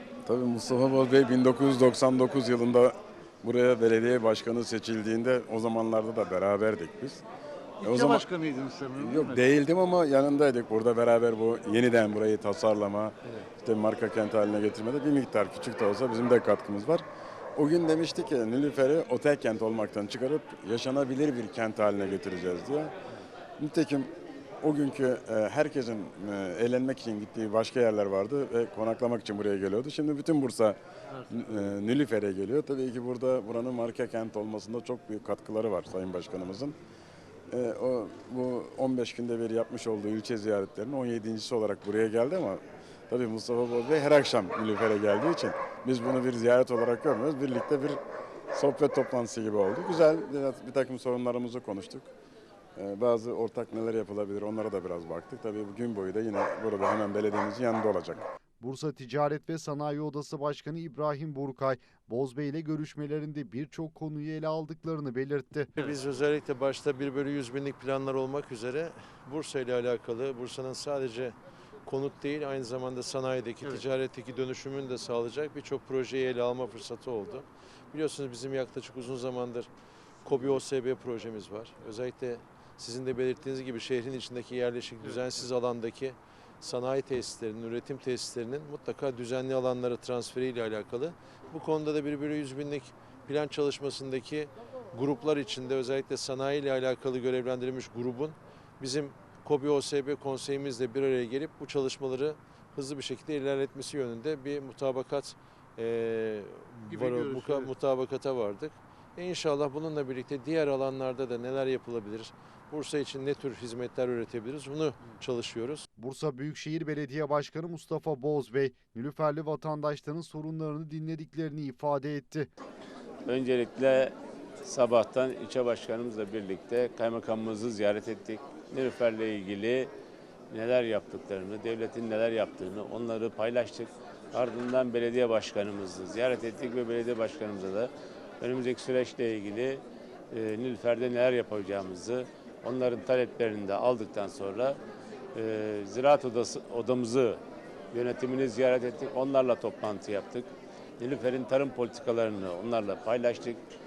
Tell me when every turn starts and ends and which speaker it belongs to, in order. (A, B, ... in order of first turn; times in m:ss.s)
0:00.2-0:07.2 A
0:07.8-0:09.5 B
0:07.8-0:08.2 A
0:09.0-0:17.0 A
0:17.6-0:22.9 A
0:23.6-0:24.1 A
0:24.6-0:36.8 A
0:37.5-0:48.0 A
0:48.5-0:52.1 A
0:52.8-0:58.2 A
0:58.6-1:05.7 C
1:05.8-1:19.7 D
1:20.2-1:55.8 D
1:46.9-1:47.7 B
1:56.0-2:02.5 C
2:03.2-2:09.9 E
2:10.5-2:24.8 E
2:25.3-2:27.4 E
2:27.9-2:30.5 E
2:31.0-2:33.6 E